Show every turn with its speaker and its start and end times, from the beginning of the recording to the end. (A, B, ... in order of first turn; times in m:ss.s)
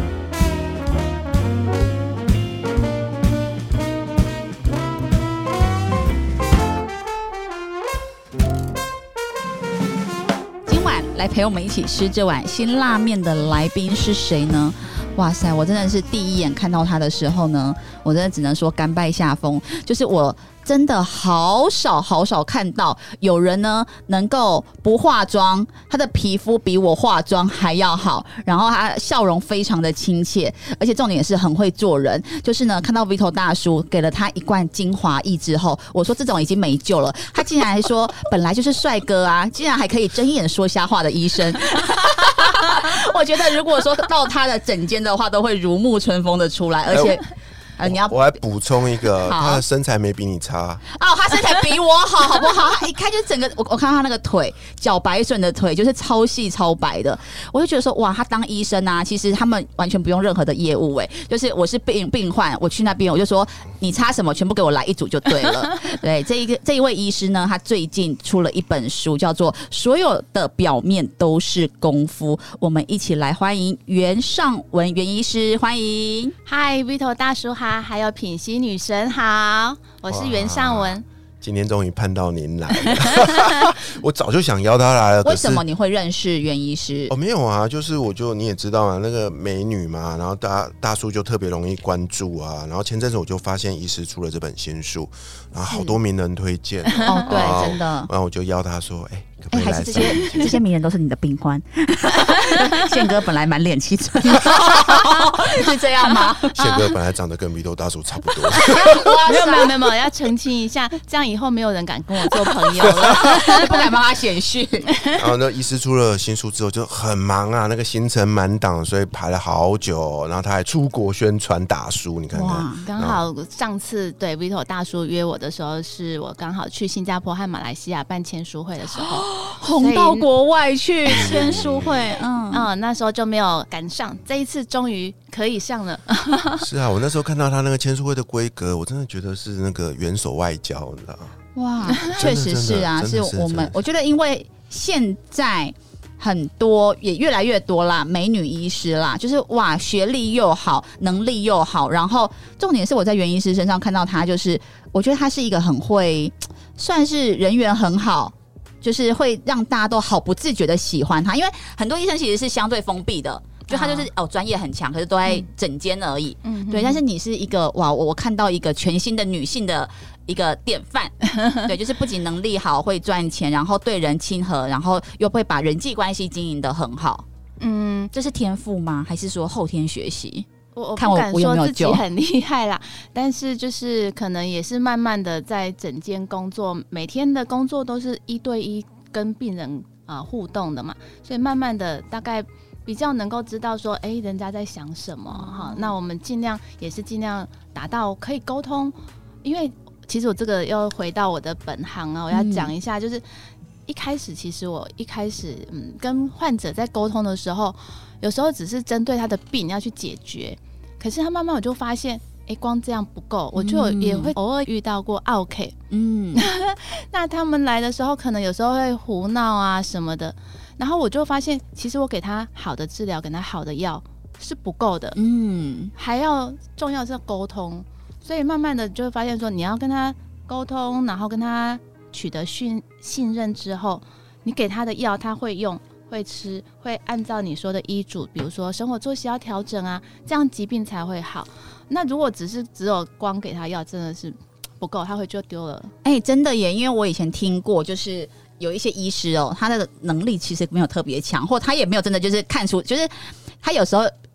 0:10.7-0:48.2 A
0:46.9-0:47.2 B
0:47.8-0:50.8 B
0:49.2-0:49.6 A
0:50.9-1:16.4 A
1:16.5-1:21.0 C
1:20.1-1:25.6 B
1:25.2-1:27.1 A
1:27.1-1:40.6 B
1:36.9-1:37.6 C
1:37.0-1:38.1 A
1:39.5-1:46.6 A
1:40.0-1:40.5 C
1:42.3-1:42.9 C
1:44.5-1:45.2 C
1:46.0-1:46.8 C
1:46.6-1:49.1 B
1:48.5-1:53.9 C
1:48.6-1:49.8 A
1:52.8-1:54.9 A
1:55.2-2:03.2 B
2:02.3-2:02.9 A
2:02.8-2:10.3 C
2:09.0-2:12.7 A
2:11.1-2:12.2 B
2:11.1-2:11.6 C
2:12.5-2:16.6 C
2:16.6-2:21.4 B
2:21.6-2:57.2 A
2:22.1-2:23.7 B
2:43.7-2:44.1 C
2:46.4-2:47.0 C
2:57.6-2:58.1 C
2:58.1-3:02.0 A
3:00.8-3:23.2 C
3:15.3-3:15.9 A
3:22.3-3:22.7 A
3:23.9-3:35.8 C
3:33.6-3:34.3 A
3:35.9-3:36.5 A
3:36.3-3:45.2 C
3:45.2-3:45.9 A
3:46.0-4:05.9 C
4:06.0-4:14.1 A